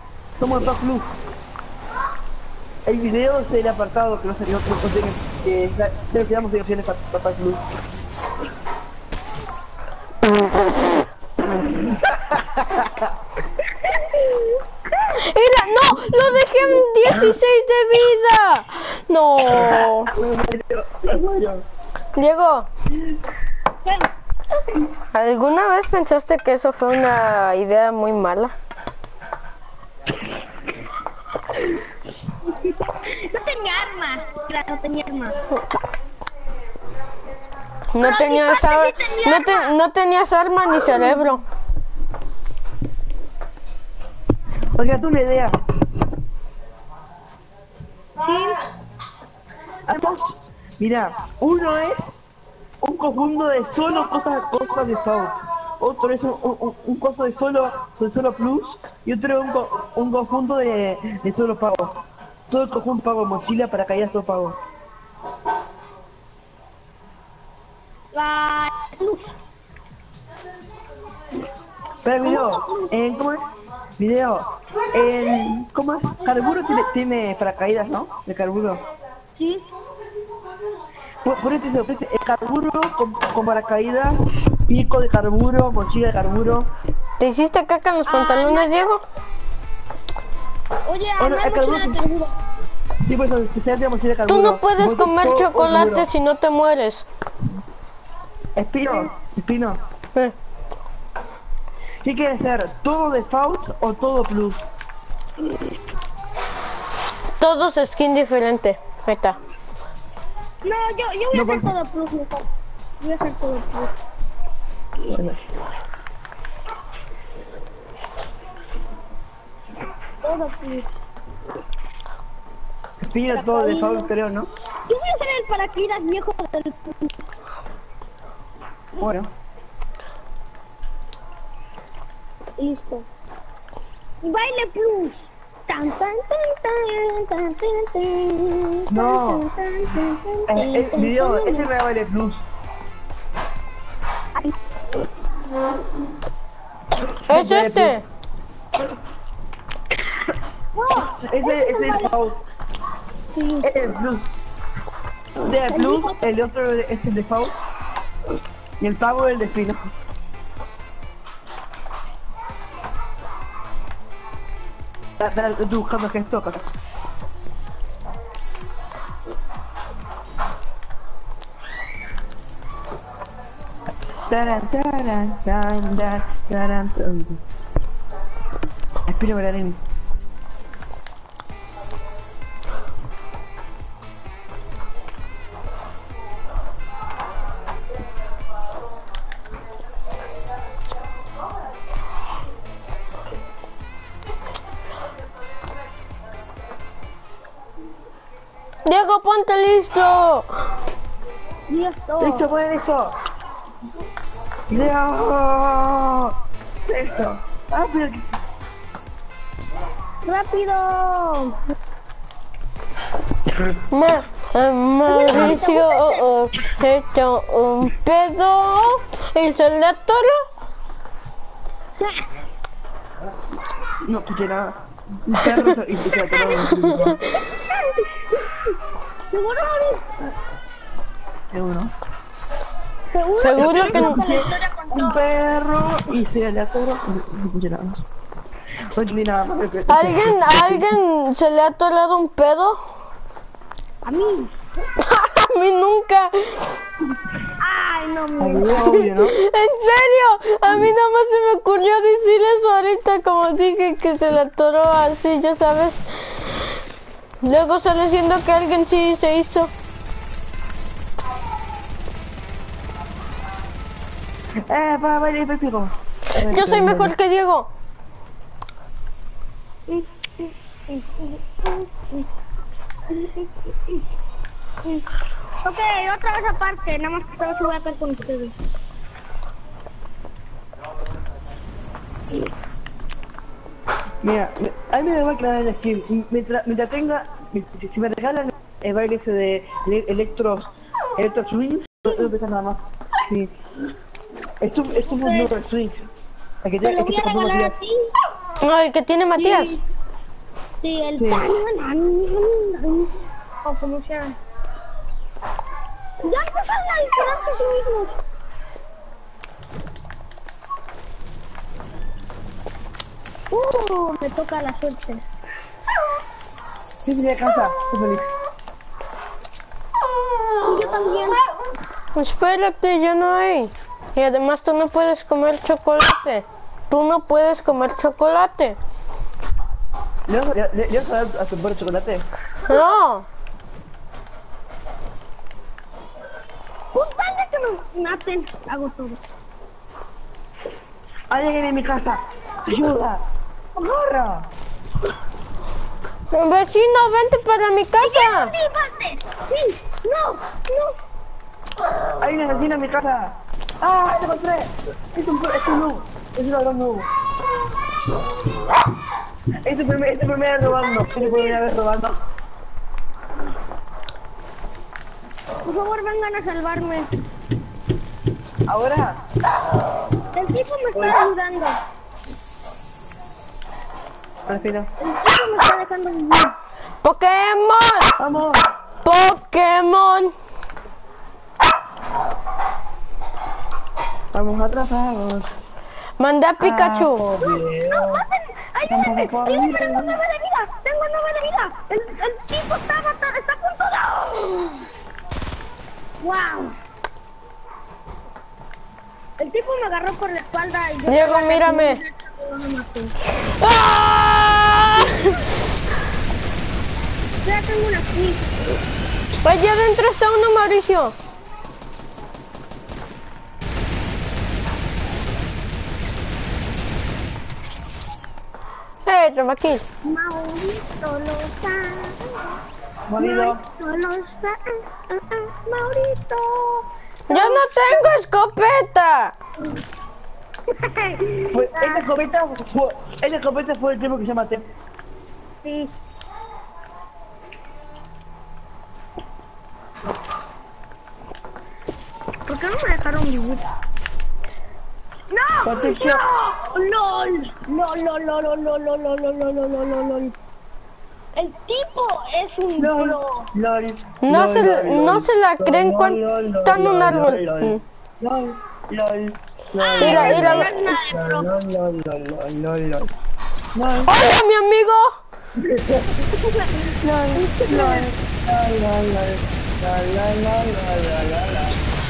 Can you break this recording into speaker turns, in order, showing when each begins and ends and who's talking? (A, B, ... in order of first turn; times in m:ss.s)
0:00.4-0:01.1 A
0:02.8-0:07.6 A
0:11.4-0:13.1 A
0:15.1-0:20.1 B
0:19.5-0:21.6 A
0:21.1-0:21.4 C
0:22.1-0:22.7 B
0:25.1-0:28.5 B
0:32.5-0:35.4 C
0:37.9-0:41.4 B
0:38.0-0:39.7 C
0:44.8-0:45.6 A
0:48.2-0:48.6 C
0:49.9-0:52.0 A
0:52.8-1:02.0 A
1:02.5-1:04.6 A
1:08.1-1:09.3 C
1:12.0-1:13.5 A
1:12.2-1:12.9 C
1:14.0-1:18.8 A
1:19.4-1:19.6 C
1:21.2-1:26.7 A
1:27.2-1:29.0 B
1:28.0-1:28.7 C
1:30.9-1:32.3 C
1:31.2-1:32.0 A
1:33.0-1:36.1 A
1:34.3-1:37.1 B
1:38.6-1:39.8 A
1:42.0-1:44.6 A
1:47.4-1:49.4 B
1:50.6-1:52.4 C
1:51.3-1:51.7 A
1:53.0-1:53.9 C
1:55.0-1:55.4 A
2:00.2-2:00.8 C
2:03.0-2:04.5 A
2:03.3-2:04.1 C
2:04.9-2:07.1 C
2:09.0-2:09.3 A
2:12.6-2:13.0 C
2:14.2-2:15.2 C
2:15.7-2:21.7 C
2:18.9-2:19.5 A
2:20.5-2:22.4 A
2:27.1-2:27.9 A
2:27.3-2:28.0 B
2:30.7-2:32.2 C
2:31.2-2:32.4 A
2:33.3-2:33.7 C
2:33.6-2:34.2 A
2:35.4-2:37.5 A
2:35.7-2:36.2 C
2:38.8-2:39.9 A
2:45.2-2:46.6 A
2:54.3-2:57.4 A
2:59.1-2:59.8 A
3:18.8-3:20.5 B
3:21.7-3:22.4 C
3:22.2-3:23.1 A
3:24.7-3:26.3 A
3:26.8-3:28.2 A
3:30.2-3:31.6 C
3:33.9-3:40.4 B
3:35.1-3:36.2 C
3:42.0-3:42.2 C
3:44.0-3:47.2 A
3:46.3-3:46.6 C
3:49.3-3:50.2 C
3:51.5-3:51.9 A
3:53.1-3:55.2 C
3:53.4-3:54.2 B
3:53.6-3:58.0 A
3:58.9-4:00.8 A
3:59.9-4:02.9 B
4:04.0-4:04.5 C
4:05.0-4:06.8 B
4:07.6-4:09.0 C
4:08.4-4:09.4 A
4:09.2-4:16.8 B
4:17.4-4:19.7 B
4:24.6-4:27.1 A
4:26.4-4:27.7 B
4:29.9-4:32.2 C
4:33.1-4:33.5 C
4:35.6-4:38.5 C
4:44.2-4:53.5 A
4:54.6-4:56.1 A
4:55.0-4:55.5 C
4:56.6-4:57.7 A
4:56.8-4:58.1 C
4:58.6-4:59.8 B
4:59.4-4:59.8 C
5:00.8-5:04.4 C
5:01.2-5:01.5 A
5:06.2-5:08.1 C
5:13.5-5:15.2 C
5:17.0-5:18.3 A
5:20.6-5:21.4 C
5:22.1-5:28.8 B
5:30.3-5:32.2 A
5:32.6-5:33.2 B
5:36.9-5:39.2 C
5:41.3-5:43.2 A
5:43.8-5:44.5 A
5:46.3-5:48.5 B
5:48.0-5:50.9 C
5:52.2-5:57.1 A
5:59.6-6:02.2 A
6:00.8-6:01.5 C
6:05.6-6:07.1 C
6:08.7-6:09.2 A
6:10.3-6:11.8 C
6:10.9-6:11.2 A
6:14.4-6:14.9 A
6:15.0-6:16.5 C
6:17.0-6:18.1 B
6:18.2-6:18.6 A
6:19.0-6:20.3 B
6:24.3-6:25.5 A
6:26.2-6:27.2 B
6:26.6-6:28.2 A
6:27.4-6:34.8 C
6:28.9-6:30.2 A
6:36.2-6:36.7 C
6:39.4-6:43.1 C
6:41.0-6:42.0 B
6:43.4-6:45.4 B
6:47.4-6:48.4 C
6:49.4-6:51.1 B
6:59.0-6:59.8 B
7:00.0-7:02.5 C
7:03.1-7:03.6 A
7:03.2-7:08.2 C
7:07.3-7:09.3 B
7:10.7-7:12.0 C
7:11.5-7:14.6 A
7:15.6-7:15.9 C
7:22.5-7:23.6 C
7:25.3-7:30.3 C
7:25.6-7:26.2 A
7:31.4-7:33.2 C
7:32.8-7:43.1 A
7:34.2-7:37.8 B
7:39.8-7:41.5 C
7:40.0-7:40.7 B
7:43.7-7:44.1 A
7:44.0-7:45.2 B
7:45.6-7:46.3 A
7:47.0-7:51.8 A
7:47.4-7:48.1 C